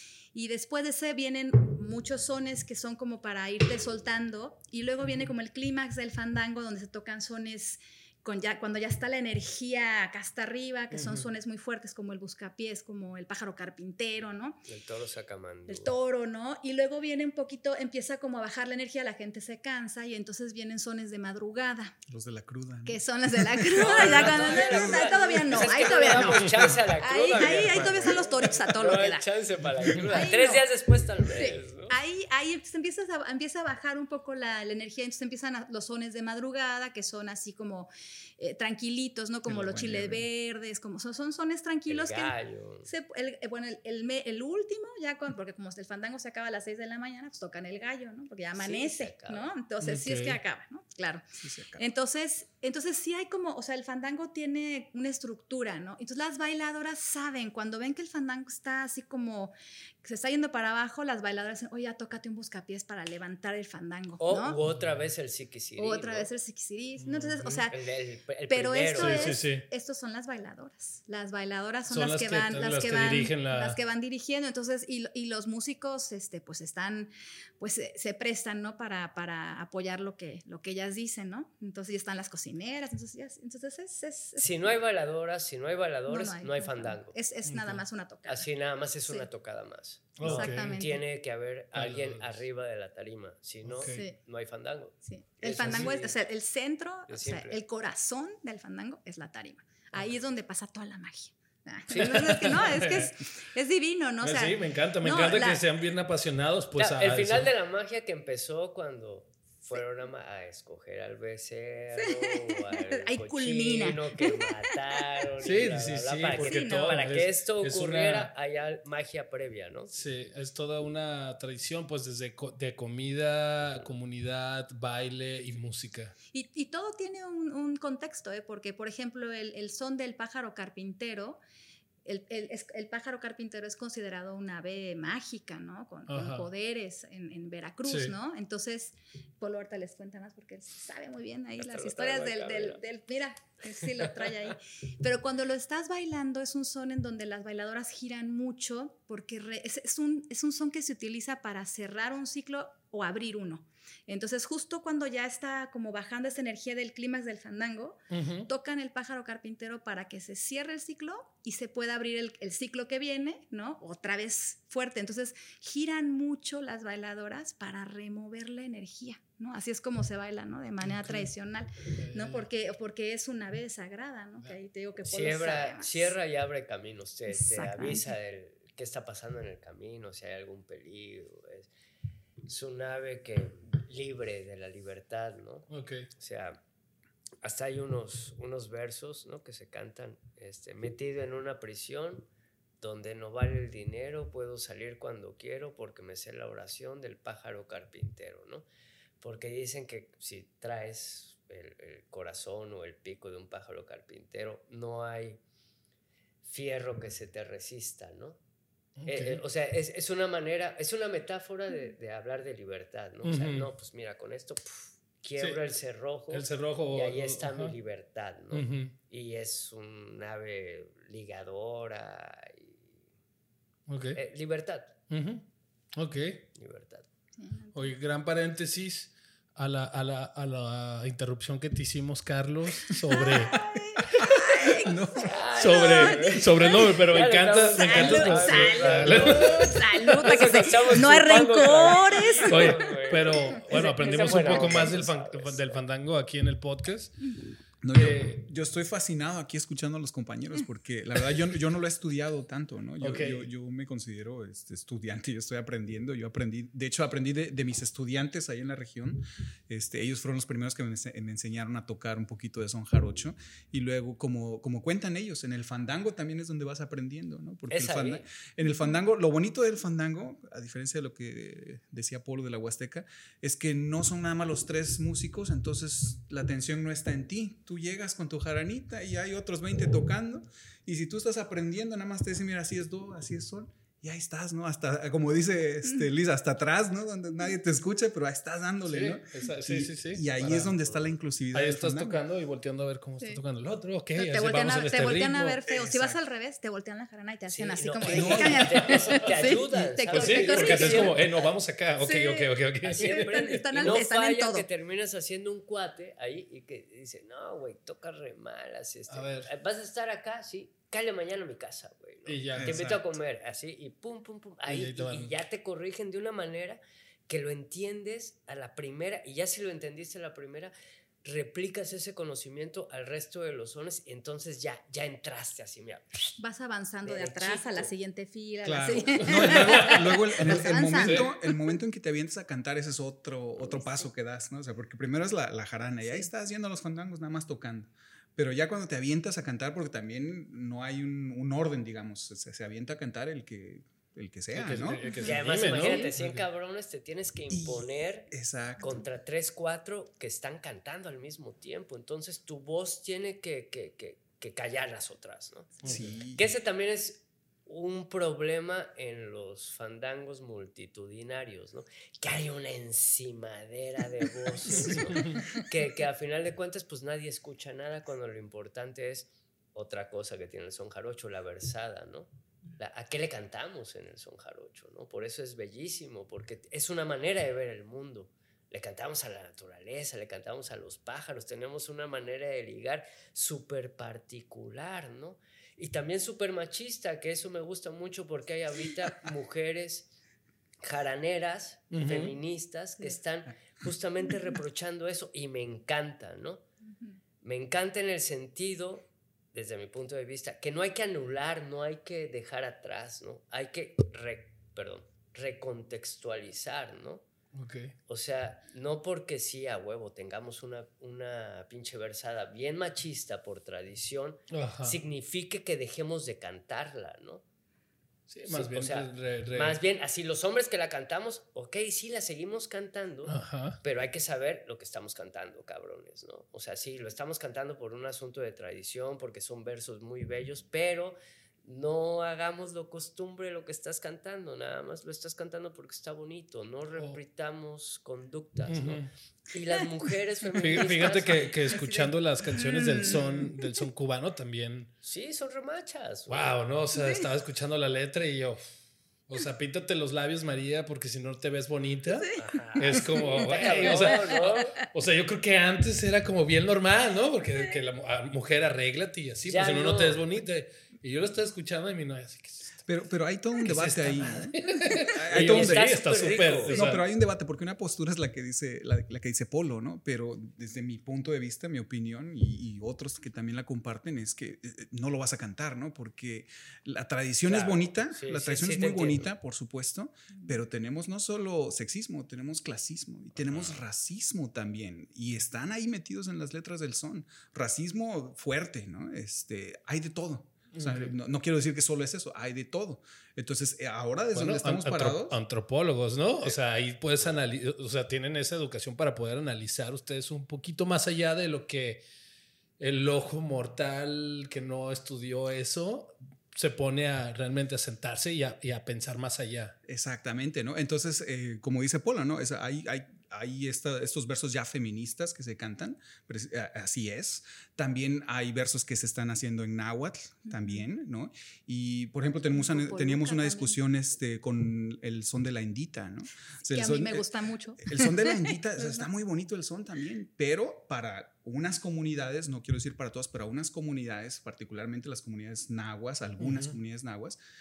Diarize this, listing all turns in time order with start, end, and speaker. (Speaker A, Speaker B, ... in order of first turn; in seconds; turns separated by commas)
Speaker A: 0.3-14.6, Speaker B: 10.9-11.3, Speaker C: 14.7-15.9, Speaker A: 15.7-21.9, Speaker D: 22.1-25.7, Speaker A: 22.9-29.3, Speaker C: 23.7-31.9, Speaker D: 26.5-26.8, Speaker D: 27.4-28.1, Speaker D: 29.7-30.1, Speaker A: 30.1-30.6, Speaker A: 31.2-42.3, Speaker D: 39.5-40.2, Speaker C: 41.9-42.9, Speaker A: 42.9-51.2, Speaker C: 48.5-49.5, Speaker B: 49.8-50.4, Speaker D: 51.4-51.8, Speaker A: 51.8-64.5, Speaker C: 64.2-66.3, Speaker B: 64.7-65.1, Speaker A: 65.8-67.8, Speaker B: 67.0-67.6, Speaker C: 67.7-69.4, Speaker A: 68.5-84.8, Speaker B: 68.9-69.6, Speaker B: 71.9-73.8, Speaker C: 84.4-87.2, Speaker A: 86.1-88.5, Speaker B: 87.5-87.8, Speaker C: 88.2-96.2, Speaker B: 90.2-90.8, Speaker A: 90.2-91.0, Speaker B: 91.7-92.4, Speaker B: 93.6-94.0, Speaker A: 93.9-94.2, Speaker A: 95.0-105.6, Speaker B: 95.6-95.9, Speaker C: 97.1-97.6, Speaker B: 101.9-103.1, Speaker B: 104.2-107.5, Speaker C: 106.8-119.9, Speaker A: 112.0-115.0, Speaker B: 115.4-118.3, Speaker A: 116.3-117.0, Speaker B: 119.9-126.1, Speaker C: 123.6-123.9, Speaker A: 126.3-131.4, Speaker A: 132.0-176.1, Speaker B: 136.1-136.5, Speaker B: 137.8-138.1, Speaker C: 141.6-142.8, Speaker C: 144.0-144.3, Speaker B: 158.1-158.5, Speaker B: 170.8-171.3, Speaker B: 171.9-172.4, Speaker C: 175.0-181.7, Speaker A: 177.3-178.1, Speaker C: 182.4-186.6, Speaker B: 185.7-186.1, Speaker C: 187.4-192.2, Speaker C: 192.8-198.6, Speaker C: 199.2-205.4, Speaker C: 206.4-208.4, Speaker B: 209.0-209.4, Speaker C: 209.1-222.9, Speaker B: 213.2-213.7, Speaker B: 216.3-217.7, Speaker B: 218.5-218.9, Speaker B: 223.9-224.2, Speaker C: 224.1-224.9, Speaker B: 225.1-226.4, Speaker C: 226.5-227.1, Speaker A: 227.4-227.9, Speaker B: 227.7-233.6, Speaker A: 233.1-236.9, Speaker D: 234.2-235.4, Speaker C: 234.4-245.8, Speaker B: 235.6-239.8, Speaker A: 237.7-242.8, Speaker B: 242.4-247.2, Speaker D: 247.8-292.2, Speaker B: 247.9-248.4, Speaker B: 253.0-253.5, Speaker C: 267.7-268.2, Speaker B: 288.8-290.7, Speaker C: 290.8-291.1, Speaker B: 291.5-295.6, Speaker A: 294.1-301.2, Speaker D: 295.7-296.2, Speaker C: 297.5-301.5, Speaker D: 298.1-299.0, Speaker B: 300.1-303.9, Speaker A: 302.0-304.6, Speaker C: 302.8-320.7, Speaker B: 309.1-309.5, Speaker B: 312.2-312.9, Speaker D: 312.6-313.0, Speaker B: 314.7-315.3, Speaker C: 321.2-326.3, Speaker A: 326.4-331.5, Speaker C: 327.0-327.9, Speaker D: 328.6-345.0, Speaker B: 329.1-331.3, Speaker A: 333.6-334.1, Speaker B: 344.5-346.4, Speaker A: 345.1-346.1, Speaker C: 345.1-390.1, Speaker D: 347.5-349.0, Speaker B: 355.8-356.1, Speaker D: 355.9-356.5, Speaker B: 364.9-365.4, Speaker C: 390.8-396.6, Speaker B: 391.9-392.3, Speaker C: 397.4-407.2, Speaker B: 407.5-407.9, Speaker C: 408.1-417.4, Speaker B: 414.5-415.0, Speaker B: 418.3-419.8, Speaker C: 418.5-441.8, Speaker B: 423.3-423.8, Speaker B: 438.7-439.1, Speaker B: 440.6-444.9, Speaker A: 441.7-443.2, Speaker C: 445.0-446.5, Speaker B: 446.3-448.7, Speaker B: 449.3-462.8, Speaker C: 452.3-454.9, Speaker A: 453.0-454.4, Speaker C: 459.5-460.2, Speaker D: 462.8-495.4, Speaker B: 463.6-467.0, Speaker C: 465.3-466.9, Speaker C: 477.4-479.3, Speaker B: 490.7-491.1, Speaker B: 494.3-502.0, Speaker B: 502.8-509.7, Speaker D: 509.9-537.4, Speaker A: 520.5-520.8, Speaker A: 522.5-523.8, Speaker A: 526.7-529.1, Speaker B: 536.4-536.7